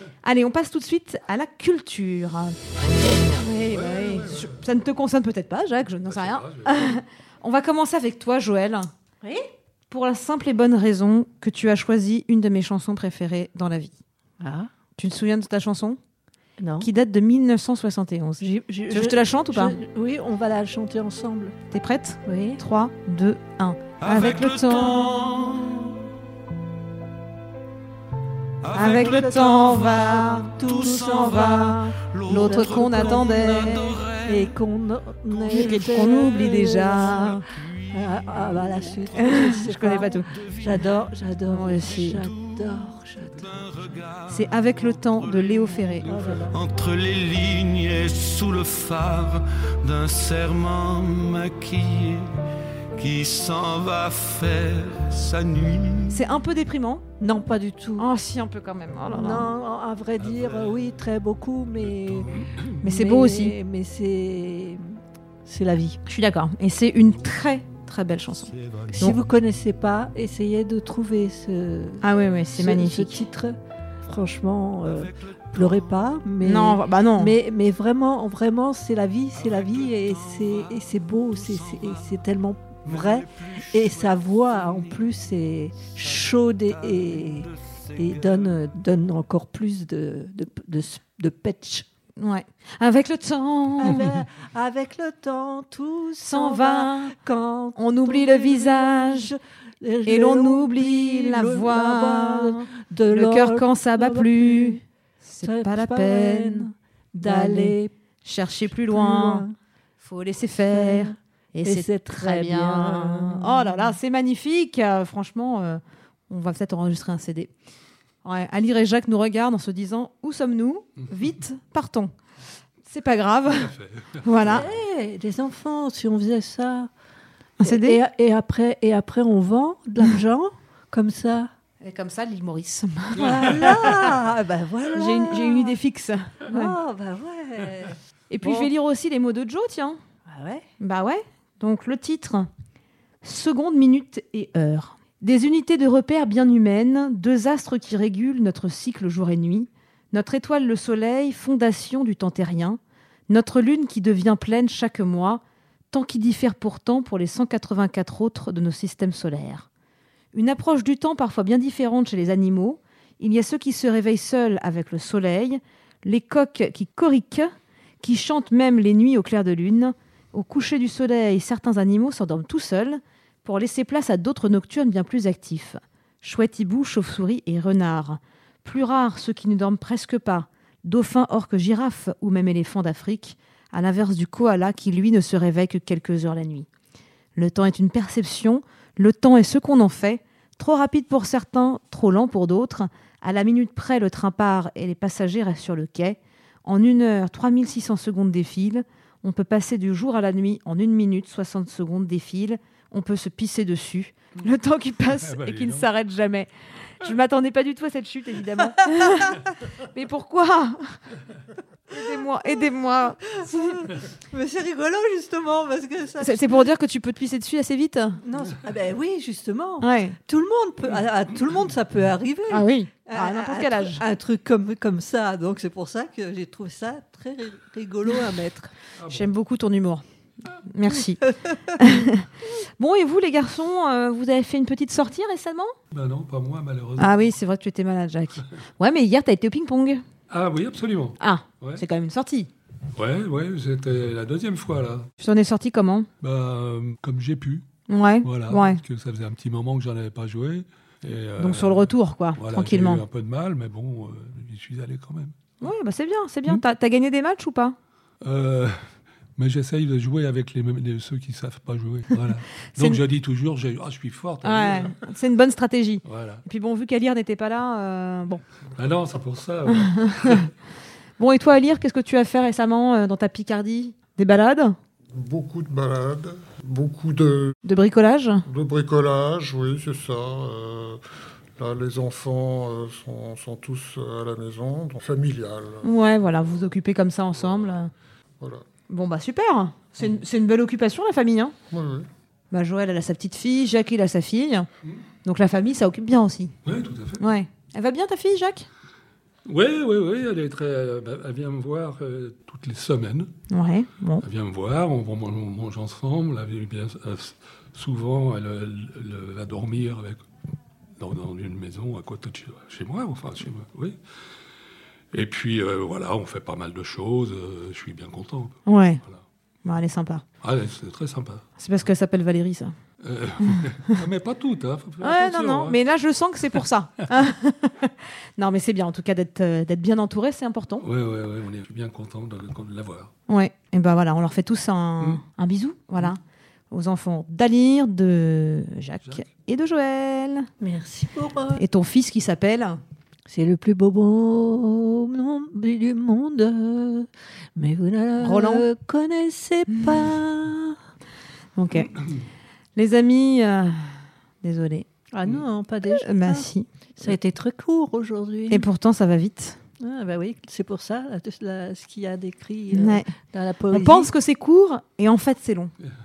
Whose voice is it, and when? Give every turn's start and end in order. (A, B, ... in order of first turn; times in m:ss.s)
0:00.2-0:02.6 A
0:03.3-0:08.9 A
0:03.7-0:04.5 B
0:06.0-0:07.0 B
0:09.2-0:09.5 C
0:09.9-0:14.0 A
0:14.4-0:14.7 C
0:15.0-0:16.0 A
0:16.6-0:16.9 C
0:16.8-0:19.8 A
0:18.4-0:21.6 C
0:21.7-0:25.2 A
0:22.2-0:22.6 C
0:24.0-0:25.9 D
0:25.2-0:26.0 C
0:28.6-0:34.5 D
0:28.7-0:34.0 A
0:28.7-0:43.7 C
0:35.3-0:36.5 D
0:35.5-0:37.4 A
0:37.2-0:39.4 D
0:39.1-0:40.3 A
0:40.3-0:40.8 D
0:41.5-0:42.3 A
0:41.9-0:52.3 D
0:44.3-0:46.1 A
0:46.0-0:46.6 C
0:52.9-0:56.2 D
0:56.1-0:57.0 A
0:57.2-0:58.1 C
0:58.0-0:59.5 A
0:59.1-1:06.0 C
1:02.8-1:03.5 A
1:06.0-1:09.2 A
1:08.6-1:08.9 D
1:09.0-1:31.8 C
1:12.0-1:13.2 A
1:14.9-1:15.9 D
1:16.4-1:17.3 A
1:19.4-1:20.8 D
1:21.3-1:22.1 D
1:22.8-1:25.0 D
1:26.1-1:28.5 D
1:32.2-1:34.0 A
1:33.8-1:44.8 C
1:36.2-1:37.2 A
1:37.8-1:39.3 A
1:40.0-1:46.7 A
1:45.4-1:47.9 C
1:47.2-1:49.4 A
1:48.7-1:49.5 C
1:50.0-1:57.5 A
1:50.7-1:54.0 C
1:58.2-2:02.1 A
2:02.8-2:04.6 A
2:03.5-2:04.6 B
2:04.4-2:06.9 C
2:07.6-2:08.0 A
2:07.6-2:11.5 C
2:11.8-2:13.8 A
2:13.1-2:15.8 C
2:13.2-2:13.8 B
2:14.9-2:16.8 A
2:16.5-2:18.7 C
2:18.3-2:20.0 A
2:20.3-2:20.6 C
2:20.8-2:22.5 A
2:23.2-2:39.7 A
2:40.3-3:06.7 A
3:07.4-3:31.0 A
3:25.2-3:25.9 B
3:31.9-3:33.8 A
3:33.3-3:36.7 C
3:36.2-3:38.2 A
3:38.2-3:48.7 C
3:39.8-3:40.2 A
3:42.5-3:44.0 A
3:49.0-3:49.3 B
3:49.1-3:50.0 A
3:50.6-3:51.2 A
3:51.2-3:51.8 C
3:51.8-3:55.7 A
3:55.9-3:57.3 B
3:57.0-4:00.0 A
4:00.3-4:01.8 B
4:01.2-4:02.5 A
4:02.9-4:05.1 B
4:05.2-4:06.1 A
4:06.2-4:07.6 B
4:07.9-4:08.8 A
4:08.2-4:15.6 B
4:11.4-4:13.0 A
4:15.6-4:17.8 A
4:18.2-4:25.0 B
4:22.7-4:23.0 A
4:24.4-4:28.4 A
4:26.0-4:26.4 B
4:28.8-4:30.5 B
4:29.7-4:30.5 A
4:31.2-4:34.8 A
4:35.1-4:37.6 E
4:37.6-4:38.4 A
4:38.4-4:41.0 E
4:41.6-4:45.9 E
4:45.8-4:47.9 A
4:47.4-4:47.7 E
4:48.4-4:48.6 E
4:48.9-4:51.5 A
4:51.7-4:52.1 E
4:52.5-4:54.7 A
4:55.2-4:56.6 A
4:56.6-4:57.2 B
4:57.2-4:58.7 A
4:59.4-5:03.3 B
5:03.5-5:04.2 A
5:04.2-5:10.2 B
5:11.0-5:14.0 B
5:15.1-5:19.2 B
5:18.6-5:19.0 A
5:19.6-5:20.2 A
5:20.4-5:21.4 B
5:21.6-5:22.7 A
5:23.0-5:25.8 B
5:23.4-5:24.0 A
5:25.0-5:30.8 A
5:30.8-5:33.1 B
5:33.3-5:36.2 A
5:36.7-5:40.5 A
5:40.6-5:41.6 C
5:41.6-5:42.8 A
5:43.3-5:50.8 C
5:48.2-5:48.7 A
5:51.6-5:52.0 A
5:52.8-5:53.9 A
5:54.4-5:54.8 A
5:55.1-5:58.7 C
5:55.8-5:56.7 A
5:58.5-5:59.6 A
5:59.8-6:04.1 C
6:02.7-6:03.1 A
6:03.7-6:05.7 A